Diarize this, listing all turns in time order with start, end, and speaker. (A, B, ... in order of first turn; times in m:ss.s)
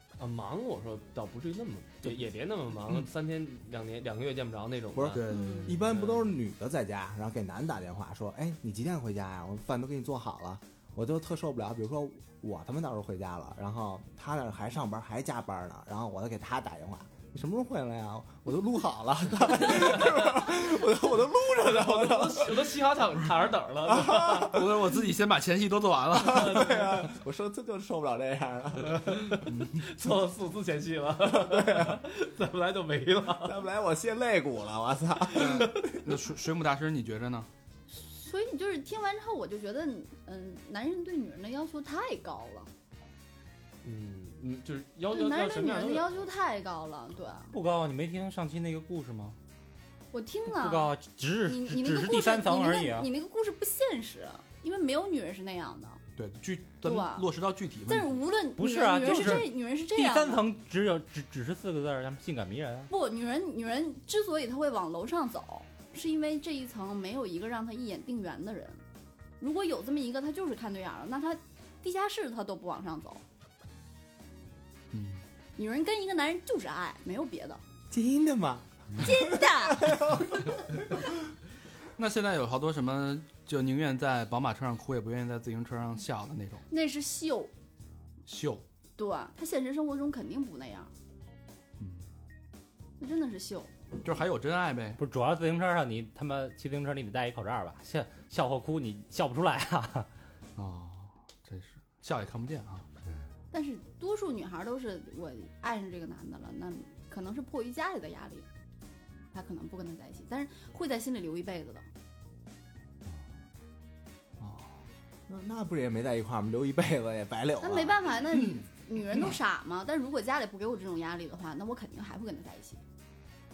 0:00.2-0:06.4 A
0:05.0-0:22.7 B
0:05.1-0:05.9 C
0:05.3-0:05.7 D
0:21.6-0:24.6 A
0:23.9-0:24.6 B
0:24.4-0:27.0 C
0:26.2-0:29.1 B
0:26.3-0:26.9 A
0:28.9-0:33.6 A
0:29.5-0:29.9 C
0:31.3-0:32.0 B
0:33.4-0:35.9 B
0:35.3-0:37.5 C
0:35.4-0:36.0 A
0:37.9-0:42.7 D
0:43.8-0:46.3 A
0:45.1-0:47.5 D
0:47.5-0:49.4 E
0:50.1-0:50.9 D
0:50.5-0:53.1 E
0:51.5-0:56.0 D
0:56.2-0:58.2 C
0:56.8-0:57.3 D
0:57.9-1:00.4 D
0:58.6-1:02.9 E
0:59.1-0:59.4 C
1:02.9-1:08.8 D
1:09.4-1:13.2 D
1:14.9-1:15.2 C
1:15.6-1:17.6 D
1:17.9-1:20.5 B
1:19.0-1:20.2 D
1:22.0-1:26.6 C
1:26.7-1:27.5 D
1:28.3-1:28.6 C
1:29.0-1:30.9 D
1:31.8-1:32.0 C
1:33.0-1:33.7 D
1:34.0-1:35.0 C
1:35.0-1:40.1 E
1:40.6-1:42.9 C
1:43.5-1:48.5 D
1:49.3-1:51.9 D
1:54.4-1:54.7 C
1:55.3-1:58.1 B
1:57.6-2:02.8 D